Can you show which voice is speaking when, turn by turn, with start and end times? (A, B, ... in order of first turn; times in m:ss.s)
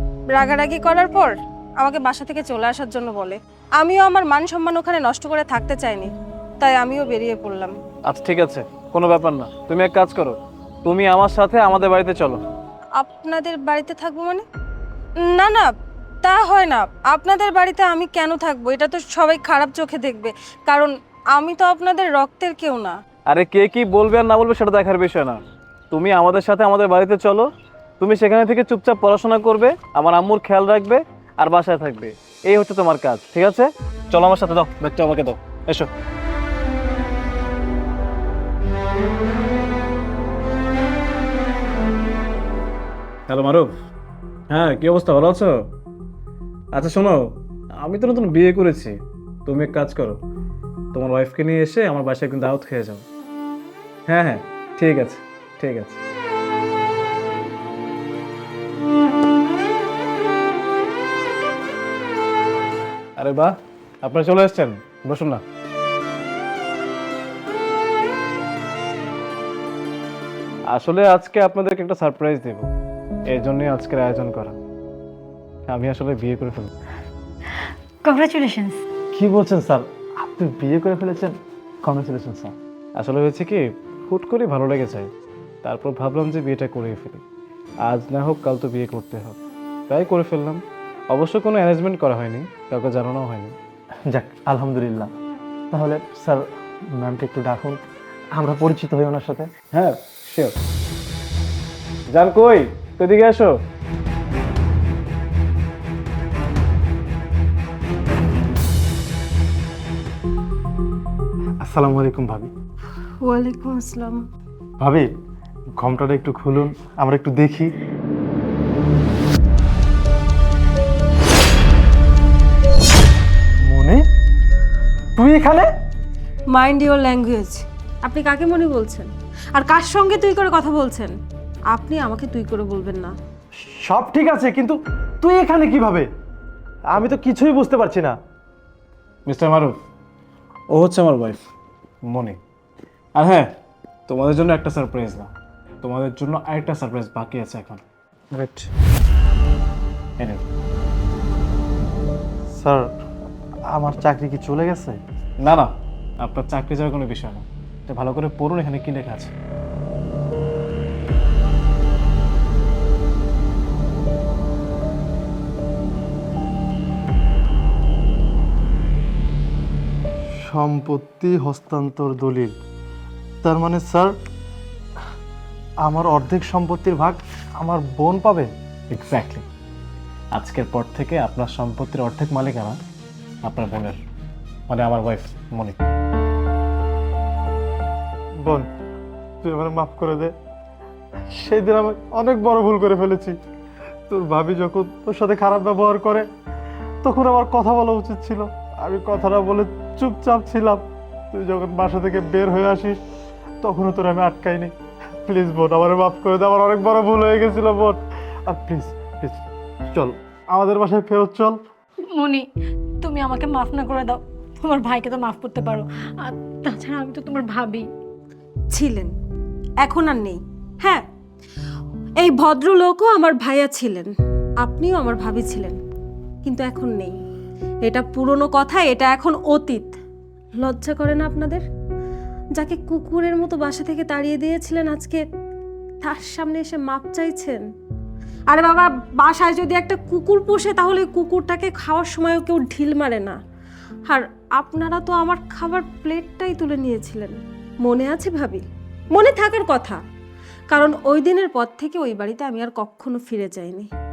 0:00.3-0:07.8 A
0:08.0-0:12.4 B
0:13.0-0:14.4 A
0:15.2-0:15.7 A
0:16.2-0:23.0 A
0:23.3-0:25.4 B
0:25.9-0:27.5 B
0:28.0-0:35.9 B
0:43.3-0:43.7 B
0:44.5-0:45.7 B
0:46.7-0:50.2 B
0:50.9-0:53.0 B
0:54.1-0:56.0 B
1:03.2-1:05.4 B
1:10.7-1:12.7 B
1:13.3-1:14.6 B
1:15.7-1:16.7 B
1:18.0-1:18.8 C
1:19.1-1:22.5 D
1:23.0-1:25.1 B
1:25.6-1:27.2 B
1:27.8-1:29.4 B
1:29.9-1:33.6 B
1:34.1-1:35.1 D
1:35.7-1:37.8 D
1:38.3-1:39.5 D
1:39.7-1:40.6 B
1:42.1-1:43.5 B
1:51.6-1:52.5 D
1:53.2-1:54.2 A
1:54.8-1:55.1 D
1:55.8-1:57.7 D
2:03.6-2:04.0 D
2:05.2-2:05.7 D
2:06.5-2:11.1 A
2:11.7-2:13.1 A
2:13.7-2:16.1 D
2:16.9-2:18.1 D
2:19.3-2:19.8 B
2:20.7-2:21.4 B
2:22.1-2:22.4 B
2:23.2-2:23.5 B
2:24.1-2:25.3 B
2:25.8-2:27.8 B
2:28.3-2:28.7 B
2:32.5-2:32.9 D
2:33.7-2:35.0 D
2:35.4-2:35.7 B
2:36.2-2:39.3 B
2:50.4-2:52.6 D
2:53.4-2:54.2 D
2:55.8-2:58.5 D
2:58.9-2:59.4 B
3:00.3-3:02.8 B
3:03.4-3:04.0 B
3:04.7-3:05.8 B
3:09.4-3:10.3 D
3:11.4-3:13.4 D
3:14.1-3:16.3 D
3:17.0-3:23.0 D
3:23.6-3:24.7 D
3:25.3-3:31.6 D
3:32.1-3:32.4 C
3:33.0-3:37.8 C
3:38.7-3:39.1 A
3:39.8-3:41.0 A
3:42.2-3:44.1 A
3:44.6-3:45.8 A
3:46.4-3:47.2 A
3:47.8-3:49.9 A
3:50.6-3:51.6 A
3:52.6-3:55.2 A
3:56.0-3:57.6 A
3:58.5-4:03.4 A
4:04.1-4:10.0 A
4:10.7-4:13.9 A